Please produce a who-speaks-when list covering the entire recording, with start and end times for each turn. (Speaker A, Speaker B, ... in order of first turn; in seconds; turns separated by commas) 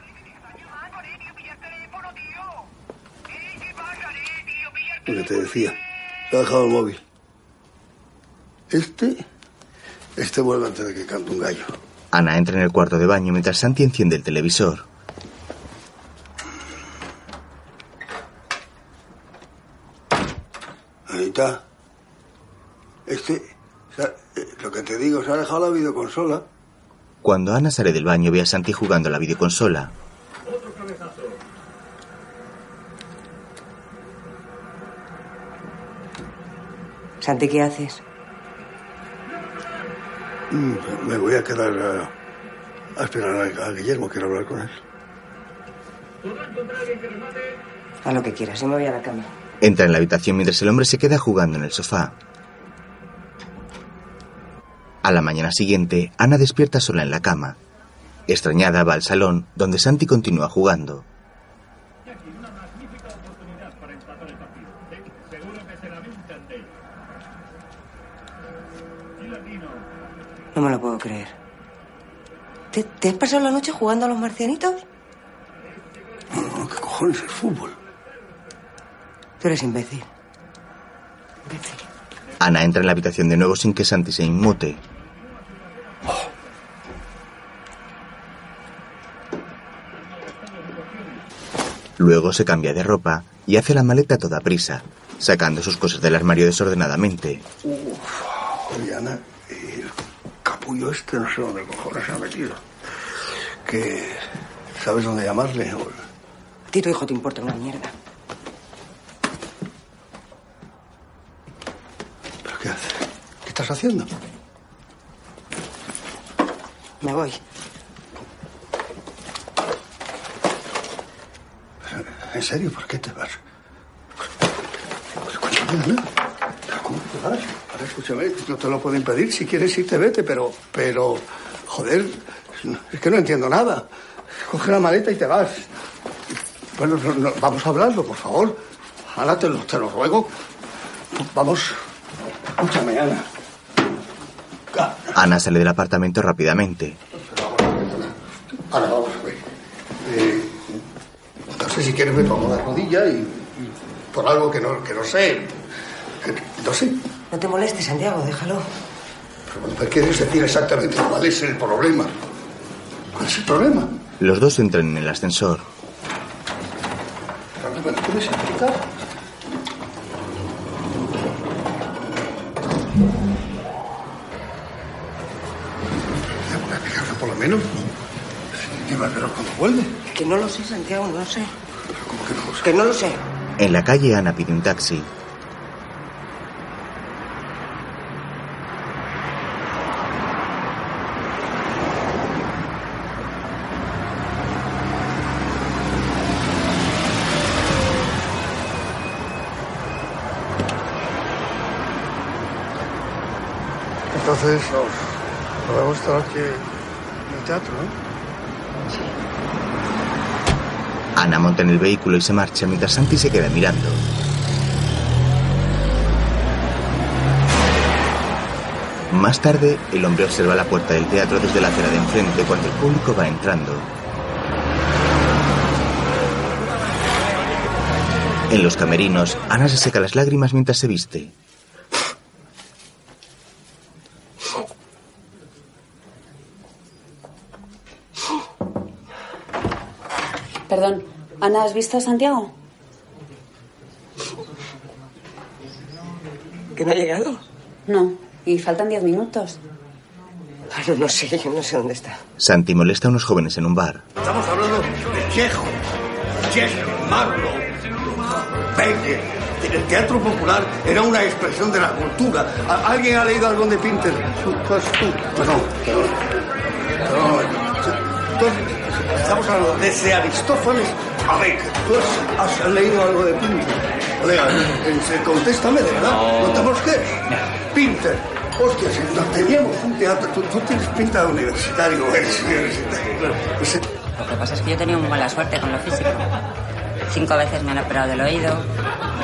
Speaker A: 5.1-5.8, Speaker A: 6.3-7.0, Speaker A: 8.7-9.2, Speaker A: 10.2-11.7, Speaker B: 12.1-14.9, Speaker A: 21.1-21.6, Speaker A: 23.1-26.5, Speaker B: 27.2-29.9, Speaker C: 37.2-38.0, Speaker A: 40.5-42.1, Speaker A: 43.0-44.8, Speaker C: 48.0-49.3, Speaker B: 49.6-52.1, Speaker B: 55.0-57.6, Speaker B: 58.3-61.0, Speaker C: 70.5-71.3, Speaker C: 72.7-74.8, Speaker A: 76.3-77.8, Speaker C: 79.4-80.1, Speaker C: 81.5-81.8, Speaker B: 82.4-84.8, Speaker B: 92.0-97.5, Speaker A: 97.6-99.9, Speaker A: 100.4-102.6, Speaker A: 103.6-104.2, Speaker A: 104.8-106.0, Speaker C: 106.7-107.9, Speaker A: 112.4-114.1, Speaker C: 117.0-117.4, Speaker A: 121.8-123.4, Speaker A: 125.2-126.1, Speaker A: 126.7-133.9, Speaker A: 134.4-135.7, Speaker A: 136.8-138.6, Speaker A: 139.1-140.3, Speaker A: 141.1-141.8, Speaker A: 142.6-143.3, Speaker A: 144.7-145.1, Speaker B: 145.1-147.0, Speaker A: 147.1-149.4, Speaker A: 150.0-150.7, Speaker A: 151.6-155.6, Speaker A: 156.2-157.0, Speaker C: 157.3-158.7, Speaker A: 159.5-162.1, Speaker A: 163.1-163.9, Speaker B: 164.2-165.7, Speaker A: 167.6-168.9, Speaker A: 176.4-177.8, Speaker A: 178.5-180.0, Speaker C: 180.1-181.5, Speaker A: 181.9-182.7, Speaker C: 182.6-183.2, Speaker B: 183.6-185.1, Speaker A: 204.1-206.7, Speaker A: 207.3-208.0, Speaker B: 211.2-214.0, Speaker B: 219.1-223.9, Speaker B: 228.5-231.3, Speaker D: 240.7-242.5, Speaker C: 246.8-247.4, Speaker D: 247.9-249.6, Speaker C: 250.7-252.2, Speaker B: 252.4-254.0, Speaker A: 254.2-255.8, Speaker A: 256.4-266.2, Speaker A: 267.0-283.9, Speaker E: 284.2-286.2, Speaker E: 287.1-288.7